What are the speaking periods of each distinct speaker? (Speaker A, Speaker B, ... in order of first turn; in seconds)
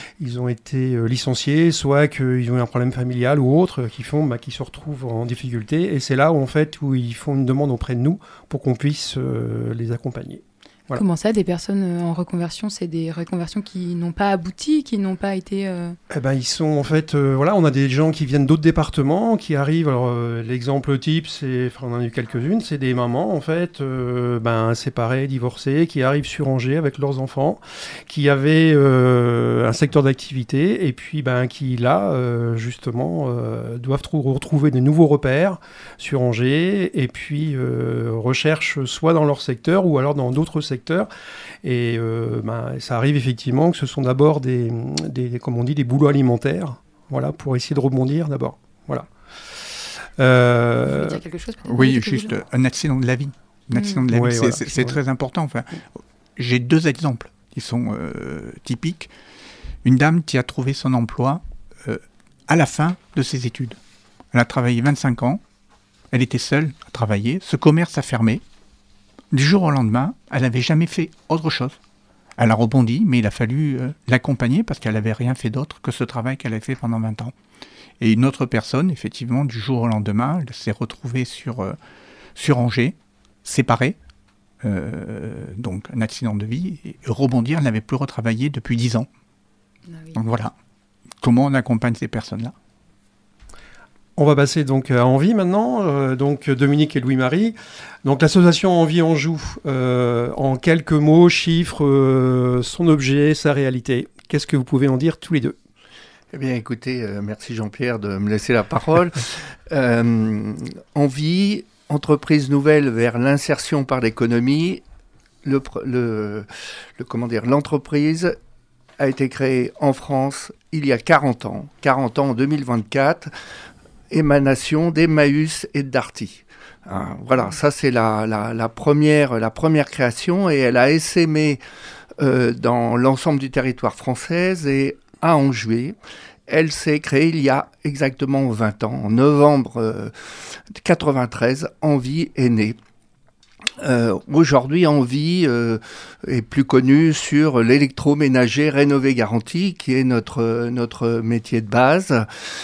Speaker A: 0.2-11.0, 16.1-41.1, 41.6-49.6, 50.2-51.2, 54.1-54.9, 94.2-105.5
Speaker B: 10.9-16.0, 50.9-52.3, 53.8-54.0
Speaker C: 51.6-55.8, 56.4-59.1, 59.8-63.8, 64.3-65.4, 66.1-68.4, 69.3-71.8, 72.4-77.3, 78.0-81.8, 82.3-84.0, 84.6-89.1, 90.1-90.5, 91.2-92.5
Speaker D: 106.3-114.8, 115.4-118.3, 119.0-123.3, 124.1-131.6, 132.2-135.9, 136.5-140.1, 140.7-142.8, 143.8-152.3